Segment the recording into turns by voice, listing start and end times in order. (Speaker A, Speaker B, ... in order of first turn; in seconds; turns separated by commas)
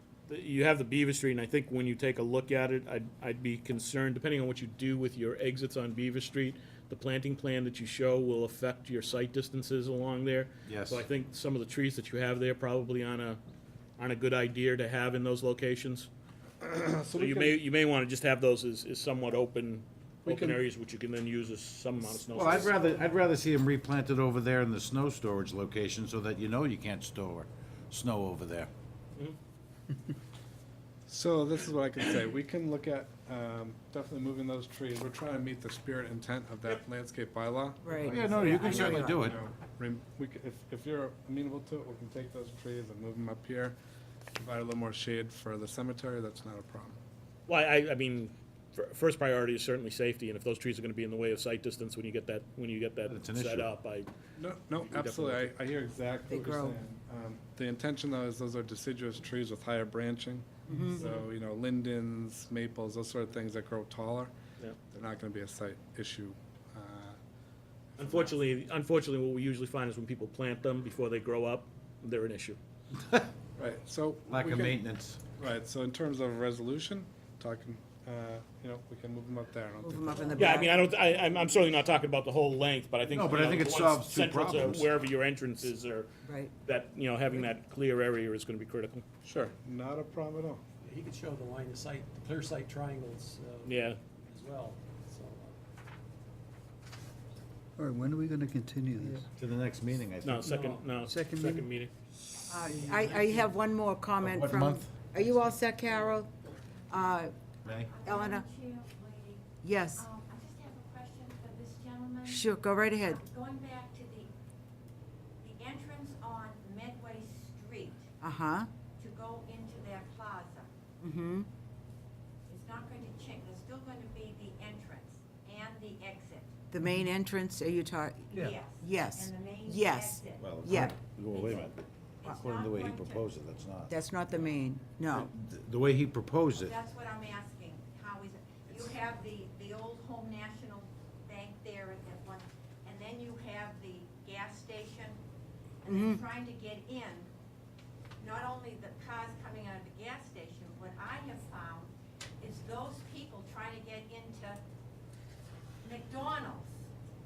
Speaker A: 0.3-13.4, Speaker B: 10.7-11.0, Speaker A: 14.0-16.1, Speaker C: 16.6-17.6, Speaker A: 17.1-22.9, Speaker C: 20.2-20.6, Speaker B: 22.3-28.7, Speaker C: 31.1-43.8, Speaker D: 37.8-39.3, Speaker B: 38.0-39.4, Speaker C: 44.4-47.0, Speaker A: 47.5-54.1, Speaker B: 53.1-53.7, Speaker C: 54.4-64.3, Speaker A: 54.7-55.5, Speaker D: 56.3-56.8, Speaker D: 60.7-61.0, Speaker C: 64.9-67.2, Speaker A: 68.0-72.6, Speaker C: 73.5-74.8, Speaker B: 74.3-75.3, Speaker C: 75.3-80.6, Speaker D: 79.8-80.7, Speaker A: 80.4-86.1, Speaker B: 83.0-84.9, Speaker D: 86.2-86.5, Speaker A: 86.6-89.0, Speaker C: 89.2-90.6, Speaker E: 90.8-95.6, Speaker A: 93.6-94.0, Speaker F: 97.8-99.3, Speaker B: 99.3-100.7, Speaker A: 100.2-101.9, Speaker E: 100.4-100.8, Speaker F: 101.0-101.7, Speaker D: 102.5-106.3, Speaker E: 102.6-103.5, Speaker B: 104.2-104.9, Speaker D: 106.9-107.3, Speaker B: 107.6-107.9, Speaker G: 107.8-114.3, Speaker D: 108.0-108.5, Speaker D: 109.6-110.0, Speaker D: 112.2-113.2, Speaker G: 115.4-118.1, Speaker D: 118.2-118.7, Speaker G: 118.9-120.7, Speaker D: 121.0-121.5, Speaker G: 122.5-126.6, Speaker D: 126.7-131.0, Speaker G: 128.3-133.3, Speaker B: 130.4-133.9, Speaker D: 133.9-135.3, Speaker B: 135.1-136.8, Speaker G: 136.5-145.2, Speaker G: 145.8-147.3, Speaker D: 145.9-146.2, Speaker G: 148.2-154.6, Speaker G: 155.8-156.9